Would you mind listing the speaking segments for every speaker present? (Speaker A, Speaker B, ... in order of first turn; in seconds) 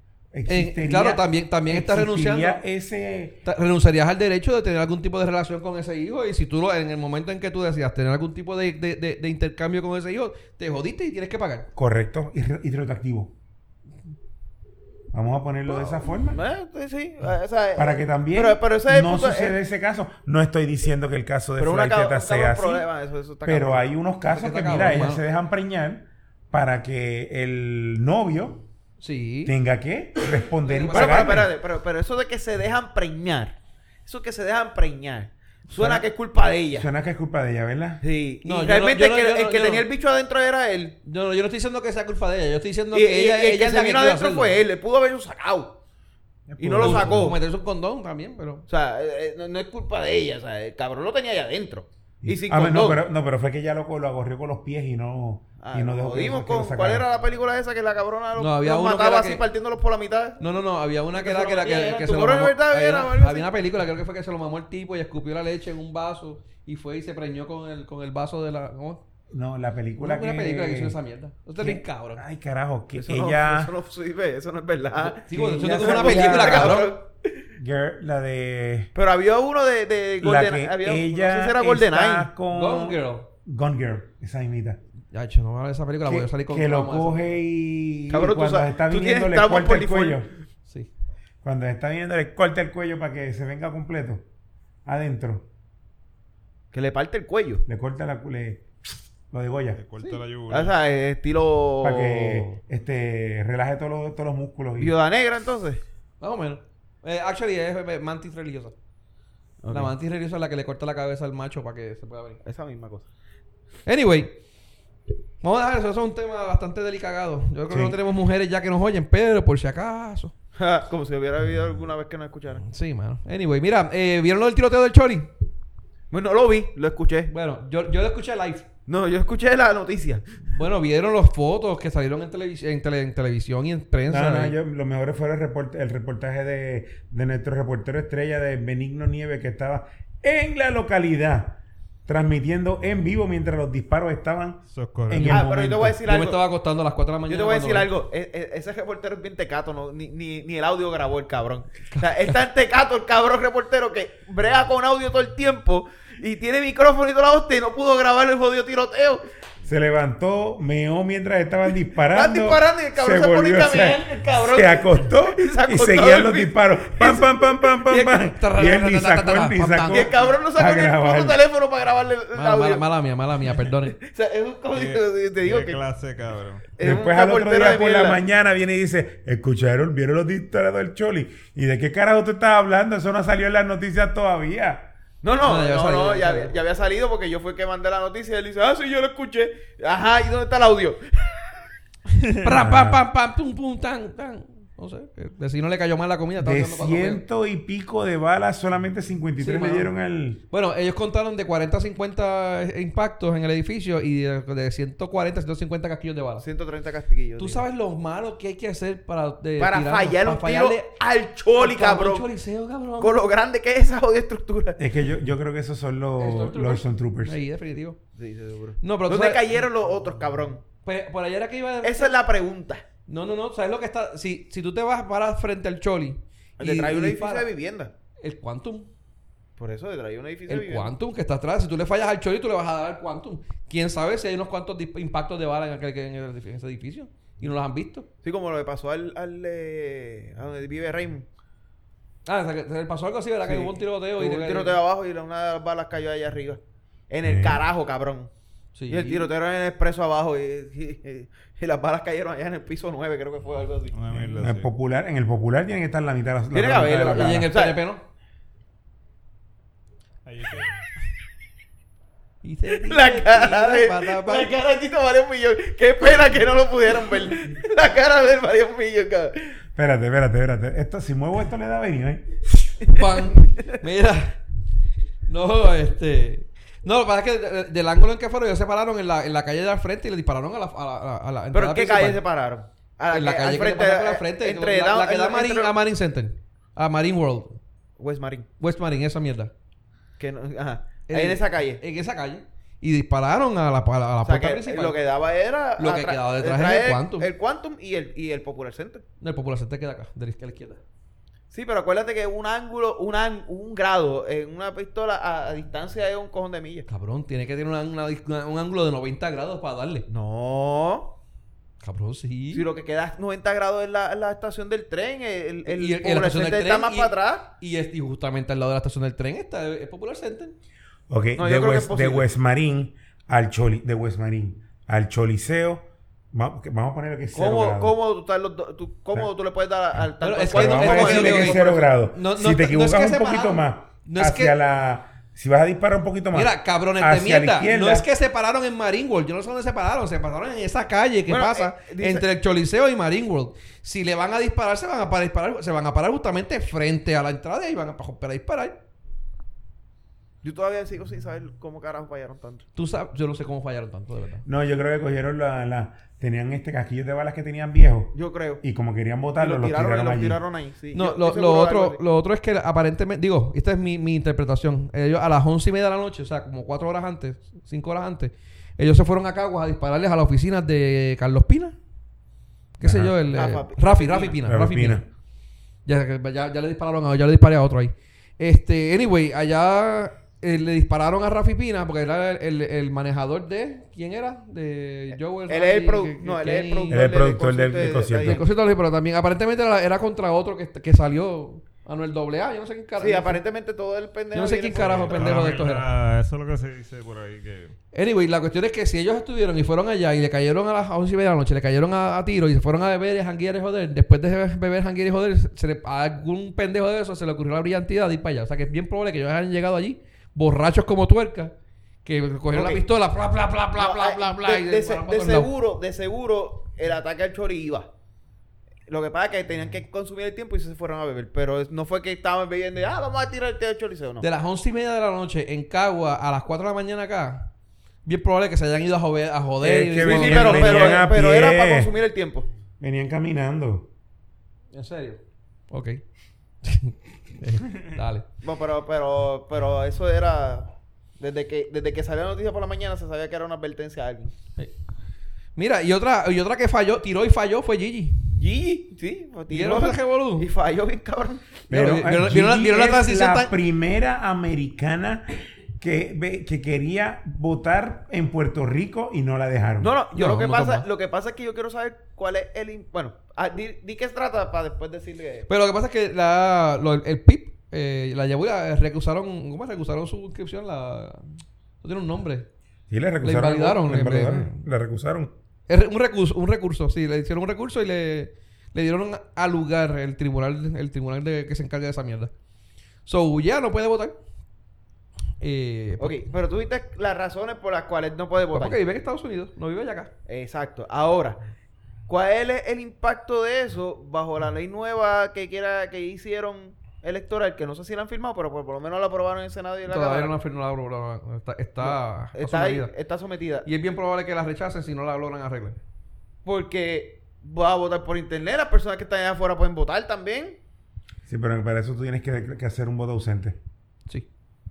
Speaker A: 0.3-3.4, 11.7-13.3, 15.1-16.4, 17.7-22.9, 23.4-28.6, 29.4-31.5, 35.7-36.0, 36.7-38.0, 46.5-47.4, 52.2-57.0, 69.3-71.0, 71.6-73.7, 75.3-76.9, 77.5-78.9, 80.2-84.8, 86.0-90.3, 91.4-94.2, 94.8-95.5, 97.7-98.7, 99.3-99.8, 101.8-105.0, 117.7-118.0, 134.1-146.0, 159.6-171.4, 176.8-184.9, 192.5-193.0, 196.4-200.4, 214.8-217.4, 247.2-247.6, 254.1-257.5, 269.8-272.8, 321.1-327.9, 330.5-338.1, 354.4-360.4, 372.8-373.1, 374.4-375.1, 386.9-388.4, 429.6-431.9, 432.8-433.9, 451.7-459.9, 472.9-475.3, 511.3-513.6
Speaker B: 0.5-2.6, 3.4-11.7, 24.2-25.2, 29.0-29.6, 30.6-31.4, 38.4-39.9, 41.0-44.6, 46.8-48.6, 58.4-59.4, 60.4-69.0, 70.0-72.2, 75.1-76.9, 82.5-83.3, 85.1-87.4, 106.2-108.7, 109.7-112.4, 113.8-114.4, 115.4-120.3, 122.6-125.3, 127.3-128.7, 130.5-134.6, 146.0-147.9, 167.9-170.1, 172.3-173.9, 185.4-186.6, 192.4-197.2, 199.4-199.9, 200.5-206.4, 207.4-210.9, 211.5-213.2, 216.2-218.0, 218.8-219.5, 220.8-222.2, 223.1-227.5, 228.2-228.9, 230.5-238.1, 242.2-244.8, 248.7-249.3, 257.1-258.0, 262.4-264.5, 272.9-274.4, 275.3-282.2, 283.1-287.6, 288.6-289.5, 291.1-295.0, 295.8-297.3, 299.2-300.8, 306.9-310.1, 311.8-312.6, 315.7-320.5, 330.2-334.6, 336.3-348.8, 352.7-354.4, 360.9-371.8, 372.8-375.1, 375.9-387.0, 388.2-393.4, 394.3-395.9, 397.9-411.5, 412.0-415.5, 424.2-427.5, 428.0-431.1, 434.7-436.0, 436.6-438.3, 445.6-448.3, 449.5-450.5, 451.7-453.5, 460.1-460.9, 465.5-472.5, 473.2-474.6, 475.7-482.3, 483.1-484.2, 485.4-486.2, 488.5-490.1, 499.9-502.9, 503.6-505.8
Speaker C: 15.7-19.6, 21.6-23.9, 30.8-36.9, 38.0-41.0, 42.9-45.8, 46.6-47.4, 48.7-53.0, 55.6-60.4, 61.1-63.5, 72.9-77.4, 78.9-82.3, 88.1-90.2, 96.7-97.6, 100.0-102.5, 104.8-105.8, 109.6-109.9, 112.4-113.1, 120.5-122.6, 126.1-127.3, 128.9-130.2, 145.2-146.4, 147.3-159.2, 162.1-167.3, 169.9-172.8, 173.8-175.8, 176.8-178.2, 185.2-191.5, 206.4-207.6, 209.6-212.3, 213.0-214.8, 218.2-220.6, 221.8-222.8, 226.6-227.9, 229.6-230.9, 238.2-241.3, 243.4-248.3, 248.9-253.9, 256.5-257.8, 262.8-269.6, 272.9-273.2, 281.5-285.7, 288.0-288.5, 290.2-291.8, 294.2-299.0, 301.5-306.9, 310.1-311.2, 312.5-317.5, 321.4-322.3, 327.3-331.9, 341.3-342.2, 350.4-352.6, 358.1-358.6, 359.4-362.0, 373.3-374.4, 385.5-388.4, 393.0-395.4, 412.5-412.8, 413.8-417.9, 418.9-424.2, 430.0-432.5, 438.4-444.3, 448.4-451.6, 459.8-465.5, 486.0-488.8, 490.3-491.4, 492.1-500.3, 501.8-503.7, 506.4-510.6
Speaker D: 99.7-100.8, 144.7-145.4, 174.7-176.7, 253.9-254.7, 260.2-260.8, 394.8-397.8